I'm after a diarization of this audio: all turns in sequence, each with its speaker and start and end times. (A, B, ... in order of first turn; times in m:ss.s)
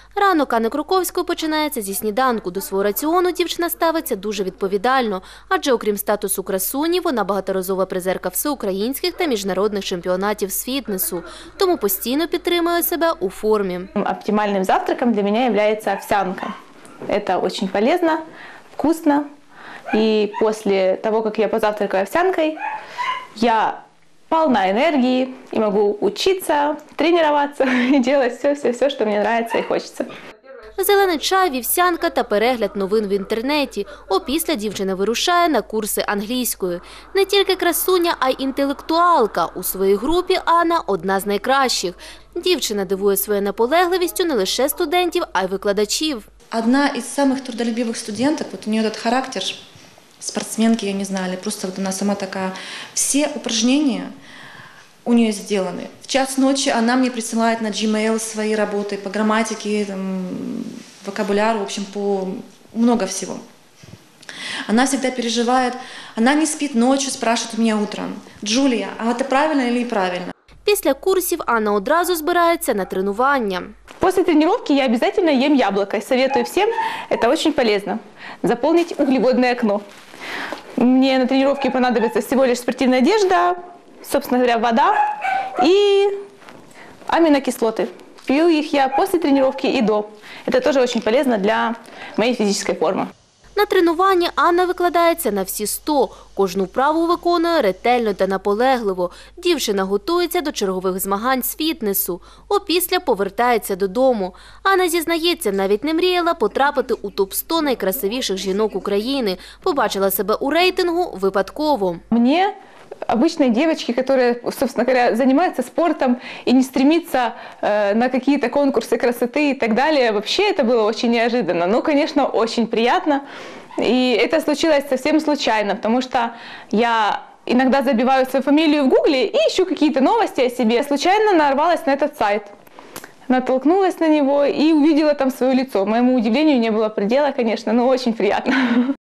0:00.2-0:13.9 A
0:14.0-0:16.5 B
0:17.1-0:18.2 B
0:18.8-0:19.3 B
0:19.9-0:22.6 B
0:23.4-0:30.1 B
0:30.8-0:46.3 A
0:46.5-0:49.6 C
0:50.2-0:54.1 C
0:55.0-1:03.4 C
1:04.7-1:10.3 C
1:10.6-1:13.7 A
1:14.0-1:19.8 B
1:20.8-1:25.0 B
1:25.6-1:26.1 B
1:27.1-1:33.1 B
1:33.6-1:52.0 A
1:52.1-1:52.5 B
1:53.1-2:03.2 B
2:03.8-2:12.5 B
2:13.3-2:19.0 B